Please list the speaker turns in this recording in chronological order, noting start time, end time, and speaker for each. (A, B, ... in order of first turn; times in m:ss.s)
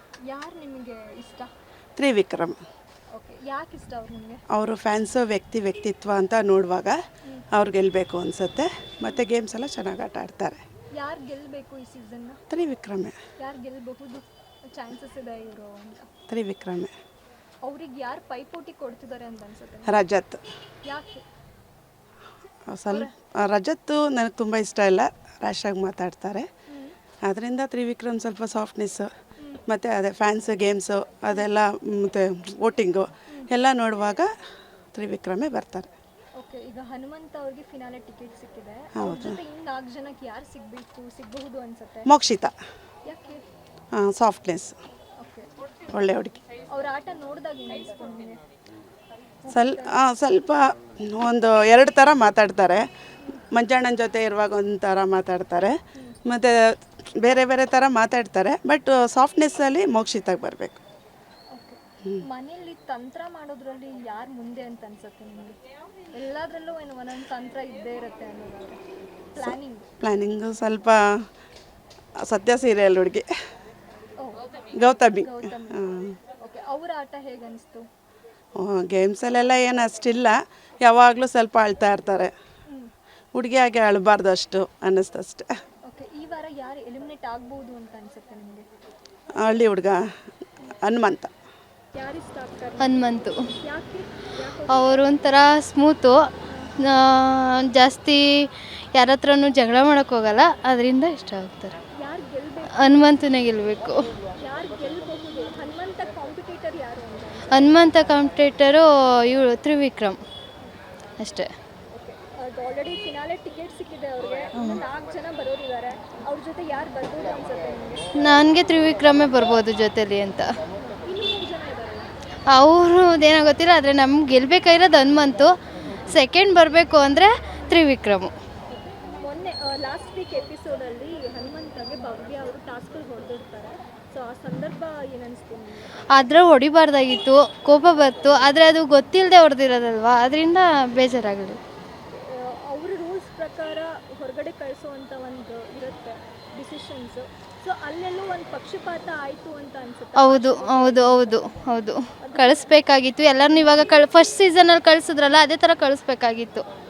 0:00.2-0:01.5 A
0:02.0-0:02.6 B
0:03.1-0:04.4 A
0:04.5-0:07.0 B
0:07.5-0:10.6 B
0:11.0-0:12.4 A
0:12.5-0:13.2 B
0:13.4-0:16.1 A
0:16.3-0:16.9 B
0:17.6-0:20.0 A
0:19.9-0:20.4 B
0:20.8-0:21.2 A
0:22.7-0:26.5 B
0:26.7-0:27.0 A
0:27.2-0:29.1 B
0:29.7-0:34.3 B
0:34.9-0:35.9 B
0:36.4-0:42.1 A
0:38.9-0:39.4 B
0:42.1-0:42.5 B
0:43.1-0:43.4 A
0:43.9-0:44.8 B
0:45.2-0:45.5 A
0:45.9-0:46.4 B
0:46.7-0:48.4 A
0:49.4-0:50.0 A
0:49.5-0:52.9 B
0:53.5-1:00.8 B
1:01.5-1:05.6 A
1:06.1-1:08.8 A
1:09.3-1:09.9 A
1:09.4-1:11.3 B
1:12.2-1:13.3 B
1:14.2-1:14.5 A
1:14.7-1:16.2 B
1:15.1-1:17.9 A
1:18.6-1:22.3 B
1:23.3-1:25.5 B
1:25.9-1:28.7 A
1:29.4-1:30.1 B
1:30.8-1:31.3 B
1:31.9-1:35.2 A
1:32.8-1:33.4 C
1:34.7-1:36.2 C
1:36.8-1:41.8 C
1:41.9-1:43.1 A
1:42.8-1:44.1 C
1:44.4-1:47.9 A
1:47.5-1:50.2 C
1:51.2-1:51.5 C
1:51.9-1:58.4 A
1:58.2-2:00.5 C
2:00.8-2:02.1 A
2:02.5-2:08.3 C
2:07.6-2:07.9 A
2:08.7-2:16.0 A
2:16.1-2:21.6 C
2:22.1-2:31.6 A
2:30.2-2:36.7 C
2:32.2-2:32.7 A